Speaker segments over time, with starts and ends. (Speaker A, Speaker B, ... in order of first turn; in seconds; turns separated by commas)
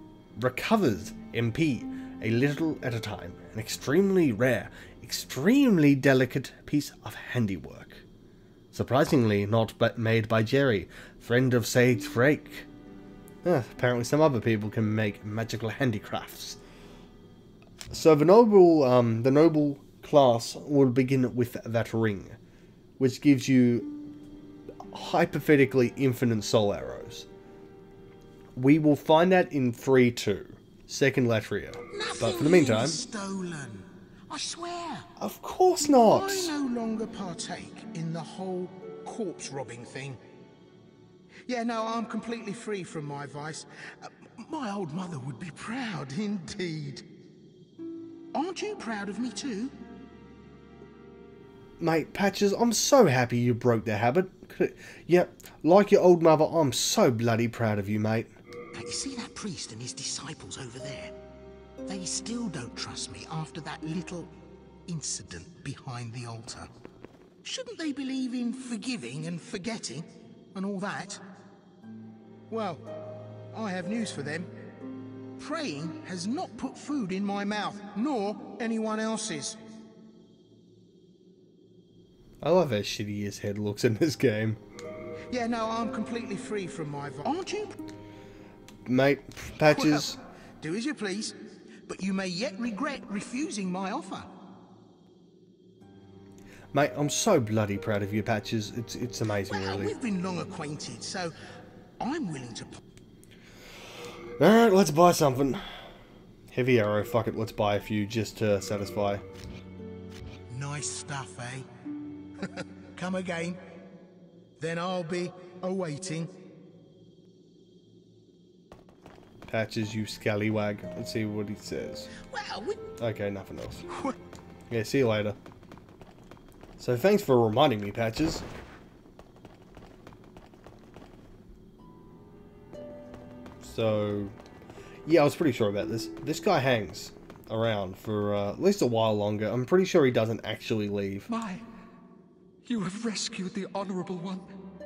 Speaker A: 0.3-8.0, Speaker A: 8.7-12.7, Speaker A: 13.4-16.6, Speaker A: 17.9-22.4, Speaker A: 23.0-24.0, Speaker A: 24.9-27.3, Speaker A: 28.6-33.0, Speaker B: 31.9-35.1, Speaker A: 35.2-36.5, Speaker B: 36.0-40.2, Speaker B: 41.5-47.0, Speaker B: 48.3-49.7, Speaker A: 51.8-58.3, Speaker B: 58.7-61.1, Speaker B: 61.8-64.3, Speaker B: 64.9-66.7, Speaker B: 67.4-71.2, Speaker B: 72.5-72.9, Speaker B: 73.5-74.5, Speaker B: 75.4-79.6, Speaker A: 82.4-84.6, Speaker B: 85.3-87.8, Speaker A: 88.8-90.2, Speaker B: 89.6-94.3, Speaker A: 96.7-99.9, Speaker B: 99.5-101.3, Speaker B: 102.0-102.8, Speaker A: 104.4-105.6, Speaker A: 106.5-109.2, Speaker B: 110.5-111.7, Speaker B: 112.4-113.6, Speaker B: 114.6-116.3, Speaker A: 119.5-122.1, Speaker B: 122.2-122.8, Speaker A: 123.0-123.8, Speaker A: 124.7-125.4, Speaker A: 126.8-128.4, Speaker A: 133.6-134.3, Speaker A: 135.1-141.3, Speaker C: 141.3-141.6, Speaker C: 142.7-144.4